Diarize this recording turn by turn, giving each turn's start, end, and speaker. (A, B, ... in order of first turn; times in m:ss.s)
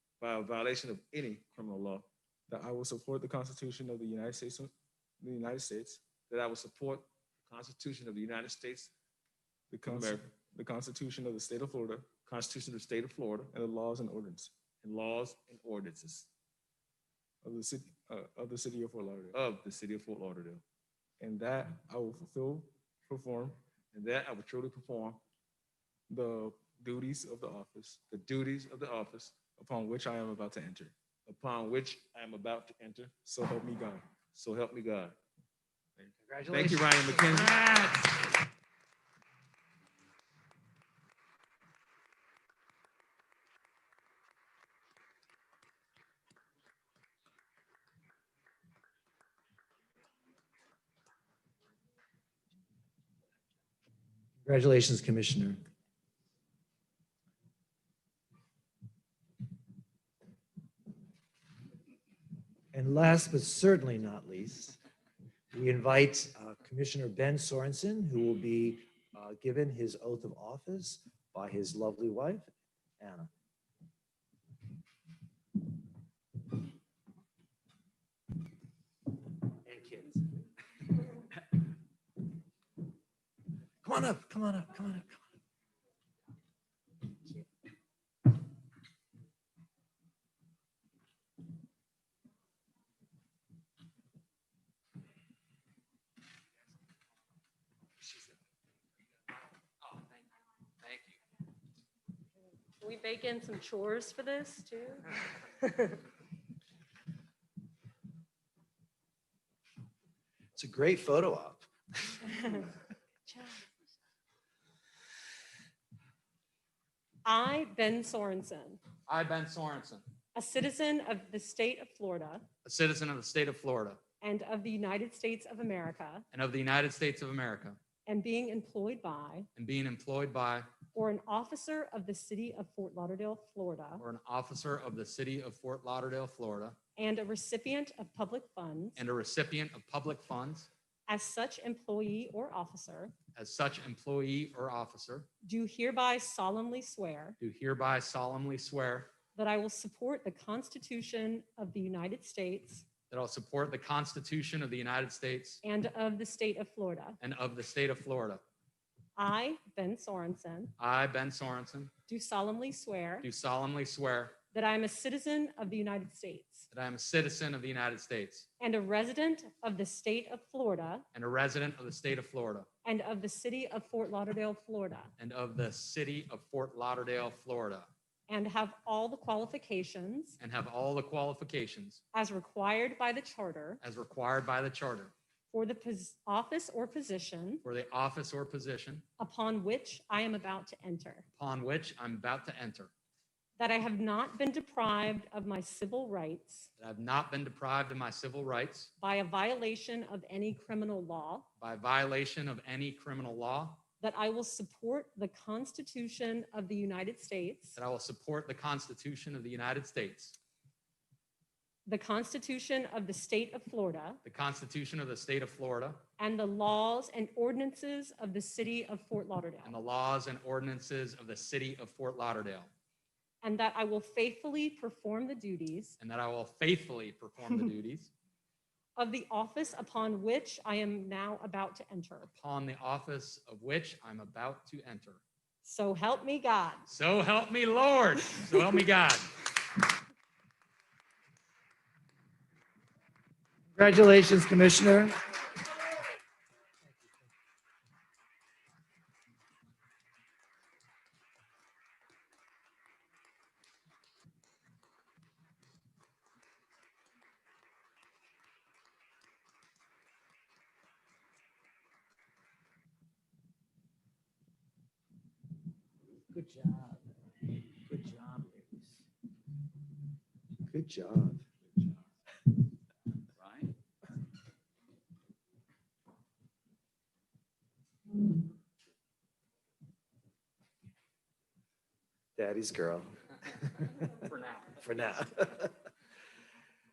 0:00.2-0:02.1 A
0:02.5-0:06.1 B
0:06.3-0:08.9 A
0:09.7-0:12.1 B
0:09.9-0:10.2 A
0:12.2-0:13.5 A
0:13.5-0:14.5 B
0:14.8-0:16.3 A
0:17.4-0:19.4 B
0:19.3-0:20.6 A
0:21.2-0:23.6 B
0:23.9-0:25.2 A
0:26.1-0:28.1 B
0:28.1-0:29.5 A
0:29.5-0:30.9 B
0:31.3-0:33.2 A
0:33.2-0:34.0 B
0:34.3-0:35.2 A
0:36.2-0:37.7 C
0:36.5-0:38.0 A
0:54.4-0:55.6 C
1:02.7-1:04.8 C
1:05.5-1:13.3 C
1:19.6-1:20.2 C
1:23.8-1:25.2 C
1:40.8-1:41.2 D
1:42.8-1:46.0 E
1:50.6-1:51.7 C
1:52.3-1:52.7 E
1:53.3-1:53.6 E
1:57.2-1:58.8 E
1:59.1-2:00.0 D
2:00.3-2:02.4 E
2:02.6-2:04.0 D
2:04.2-2:06.2 E
2:06.3-2:07.8 D
2:08.0-2:09.5 E
2:09.6-2:10.7 D
2:10.9-2:14.0 E
2:14.0-2:16.8 D
2:17.0-2:19.0 E
2:19.0-2:20.7 D
2:21.1-2:23.1 E
2:23.3-2:25.3 D
2:25.4-2:27.4 E
2:27.4-2:29.1 D
2:29.3-2:32.8 E
2:33.1-2:35.6 D
2:35.6-2:37.2 E
2:37.2-2:38.4 D
2:39.2-2:40.7 E
2:40.8-2:41.9 D
2:42.1-2:43.3 E
2:43.2-2:44.4 D
2:44.5-2:46.7 E
2:46.7-2:48.5 D
2:48.6-2:51.0 E
2:51.1-2:52.7 D
2:52.8-2:55.1 E
2:55.2-2:57.9 D
2:58.3-3:00.4 E
3:00.4-3:02.0 D
3:02.1-3:03.8 E
3:03.8-3:05.1 D
3:05.5-3:07.6 E
3:07.6-3:09.0 D
3:09.2-3:11.2 E
3:11.4-3:12.9 D
3:13.6-3:16.7 E
3:16.8-3:18.9 D
3:19.0-3:21.5 E
3:21.6-3:23.8 D
3:24.0-3:27.8 E
3:27.8-3:30.4 D
3:31.8-3:34.2 E
3:34.2-3:36.0 D
3:36.2-3:39.8 E
3:39.6-3:42.7 D
3:43.4-3:46.0 E
3:46.0-3:48.1 D
3:49.0-3:52.3 E
3:52.2-3:55.2 D
3:55.6-3:56.9 E
3:56.9-3:59.3 D
4:03.8-4:05.2 C
4:26.3-4:27.0 C
4:27.9-4:28.8 C
4:30.7-4:31.4 C
4:42.4-4:43.1 C
4:44.2-4:44.8 D
4:44.8-4:45.7 C